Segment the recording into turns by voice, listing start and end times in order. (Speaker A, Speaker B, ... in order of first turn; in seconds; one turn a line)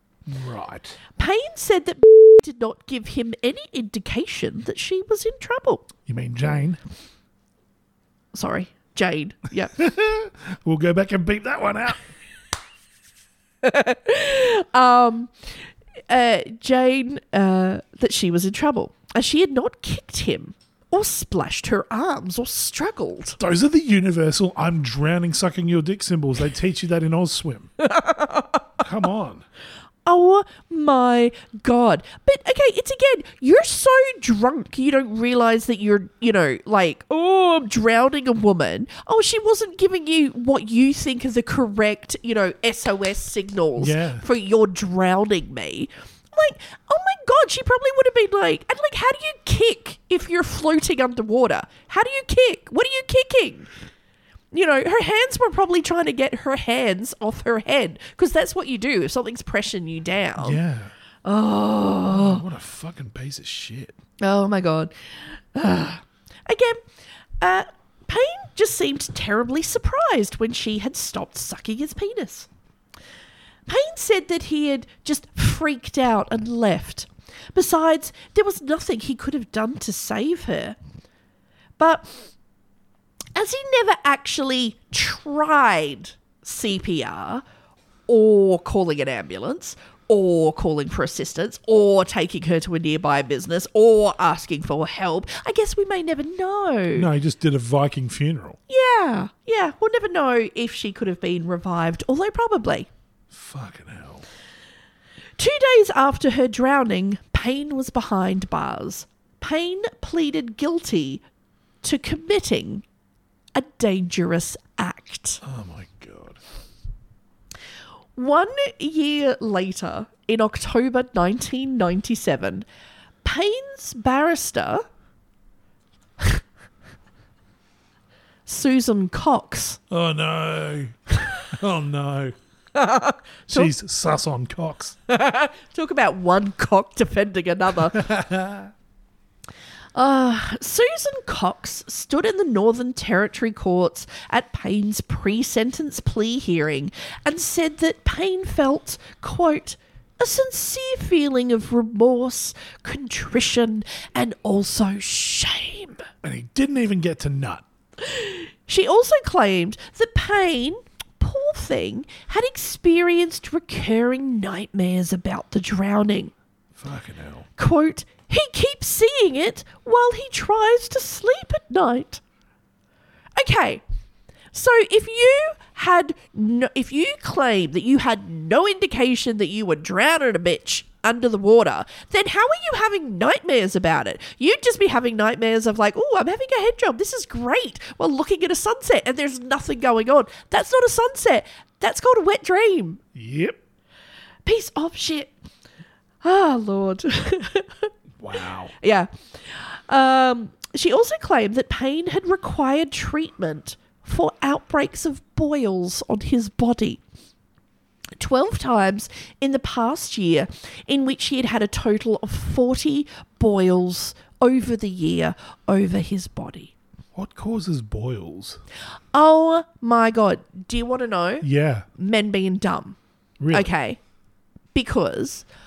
Speaker A: 0.3-1.0
Speaker B: 1.2-5.9
Speaker A: 6.0-6.8
Speaker B: 8.3-9.7
Speaker A: 9.7-12.0
Speaker B: 13.6-15.3
Speaker B: 16.1-23.4
Speaker A: 23.4-27.8
Speaker B: 27.9-28.5
Speaker A: 28.8-29.4
Speaker B: 30.0-53.7
Speaker A: 43.8-44.2
Speaker B: 54.5-60.6
Speaker A: 60.4-60.9
Speaker B: 61.2-62.4
Speaker A: 62.1-64.0
Speaker B: 64.2-66.8
Speaker B: 67.4-72.5
Speaker B: 73.7-80.8
Speaker B: 81.8-82.1
Speaker B: 83.3-87.4
Speaker B: 88.1-97.1
Speaker A: 96.9-98.6
Speaker B: 98.7-102.9
Speaker A: 103.3-104.2
Speaker B: 105.4-111.2
Speaker B: 111.8-112.8
Speaker B: 113.5-115.4
Speaker A: 115.4-116.4
Speaker B: 118.2-122.7
Speaker B: 123.2-124.8
Speaker B: 128.4-129.8
Speaker A: 129.9-132.3
Speaker B: 132.7-133.7
Speaker A: 133.5-134.9
Speaker B: 135.1-138.0
Speaker A: 137.9-138.7
Speaker B: 139.9-156.1
Speaker A: 156.2-157.6
Speaker B: 158.0-166.3
Speaker A: 166.8-167.5
Speaker B: 167.6-172.2
Speaker B: 173.3-173.8
Speaker B: 174.5-193.0
Speaker A: 193.1-193.6
Speaker B: 194.4-195.3
Speaker B: 196.2-197.9
Speaker A: 198.2-198.7
Speaker B: 198.8-207.0
Speaker B: 208.2-216.7
Speaker A: 217.1-218.6
Speaker B: 219.1-223.0
Speaker A: 221.4-221.8
Speaker A: 223.4-223.7
Speaker B: 223.5-224.0
Speaker B: 224.7-225.4